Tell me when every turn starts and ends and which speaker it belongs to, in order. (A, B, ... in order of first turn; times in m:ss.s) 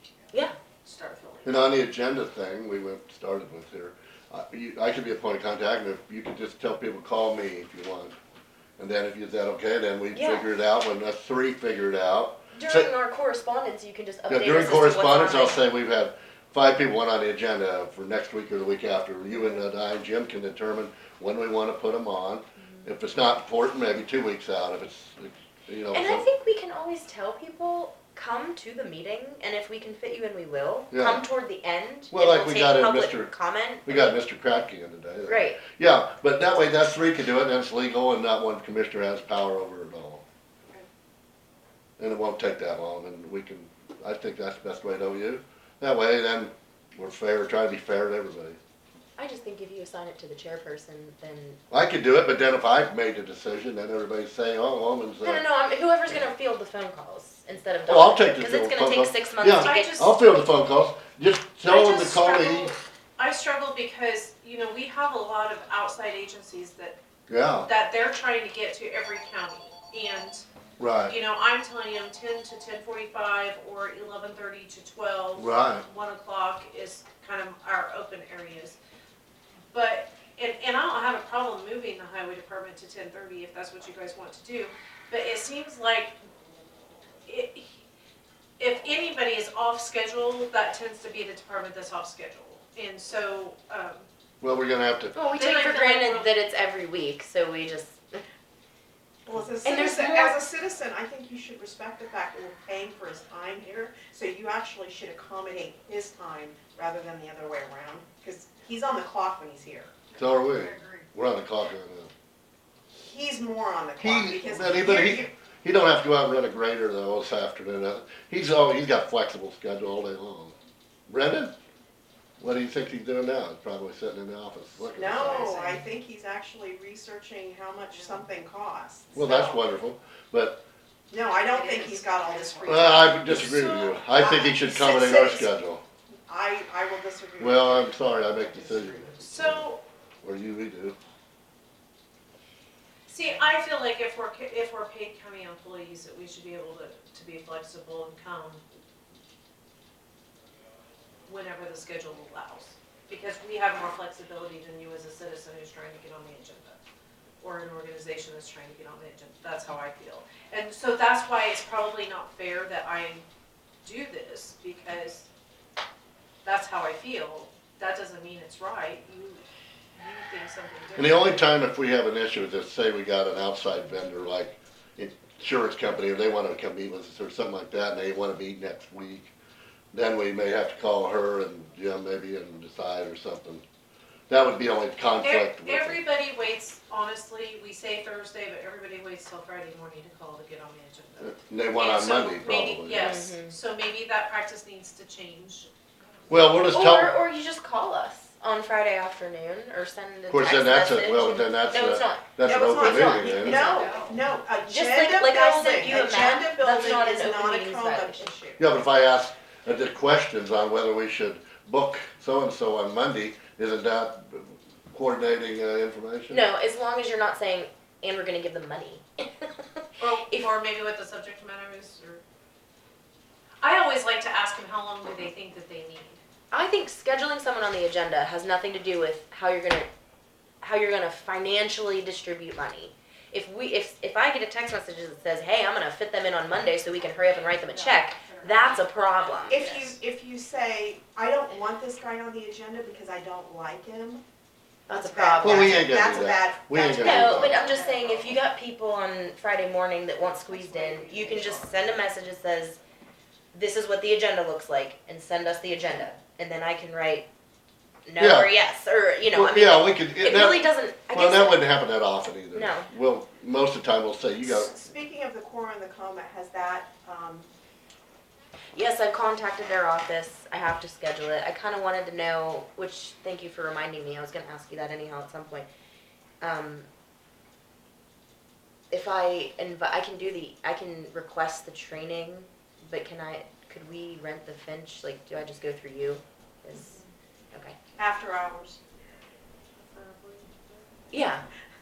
0:00.8-0:01.8 A
0:01.4-0:08.2 B
0:08.8-0:12.9 B
0:10.1-0:10.5 C
0:12.5-0:15.6 C
0:14.3-0:26.2 B
0:22.6-0:22.9 C
0:25.9-0:34.1 C
0:30.9-0:31.2 B
0:32.1-0:33.3 B
0:33.8-0:40.2 B
0:35.3-0:35.6 C
0:42.0-0:48.6 B
0:49.2-0:51.6 C
0:51.7-0:55.4 B
0:55.2-1:00.1 C
0:57.9-1:02.7 B
0:59.6-1:00.2 A
1:01.7-1:07.0 A
1:07.3-1:07.7 B
1:07.6-1:10.4 A
1:10.8-1:11.2 B
1:11.1-1:18.8 A
1:15.4-1:15.8 B
1:19.7-1:26.2 A
1:27.3-1:27.8 A
1:28.6-1:34.1 A
1:34.4-1:35.2 B
1:35.1-1:38.2 C
1:35.2-1:36.3 A
1:39.3-1:50.1 D
1:39.6-1:40.4 C
1:50.2-1:52.1 B
1:52.9-1:55.3 D
1:54.0-2:00.5 B
2:01.1-2:01.5 B
2:02.4-2:05.5 B
2:04.9-2:09.6 D
2:05.4-2:05.7 A
2:09.2-2:10.6 B
2:11.1-2:13.4 D
2:11.3-2:14.1 A
2:12.7-2:15.8 B
2:14.1-2:15.5 D
2:15.0-2:15.3 A
2:16.3-2:19.3 D
2:17.4-2:19.7 B
2:19.2-2:19.8 A
2:20.2-2:21.0 B
2:23.1-2:28.6 A
2:31.3-2:36.8 A
2:37.4-2:43.3 A
2:43.8-2:45.3 A
2:46.4-2:49.4 A
2:50.0-2:51.5 A
2:51.0-2:59.3 B
2:59.9-3:03.6 B
3:04.3-3:06.0 B
3:05.2-3:15.7 A
3:11.2-3:13.2 B
3:12.9-3:13.6 C
3:16.3-3:17.1 B
3:16.7-3:24.0 C
3:20.3-3:23.7 B
3:22.4-3:28.6 D
3:23.5-3:24.2 A
3:24.6-3:28.3 C
3:28.6-3:36.4 B
3:36.3-3:40.5 C
3:40.0-3:40.3 D
3:40.4-3:42.2 A
3:43.6-3:46.2 A
3:46.5-3:49.9 C
3:50.6-3:59.6 C
3:59.3-3:59.9 A
3:59.5-4:04.2 D
4:04.9-4:05.8 C
4:04.9-4:08.4 D
4:05.4-4:07.6 B
4:07.0-4:12.8 C
4:10.5-4:11.7 D
4:13.5-4:17.3 C
4:18.0-4:21.6 C
4:18.2-4:18.5 B
4:19.3-4:24.7 B
4:22.5-4:22.9 C
4:24.4-4:27.5 D
4:28.7-4:35.7 C
4:36.4-4:36.9 C
4:38.9-4:47.0 C
4:46.7-4:47.1 A
4:47.5-4:47.8 C
4:48.0-4:48.8 D
4:49.8-4:50.9 A
4:51.1-4:51.4 C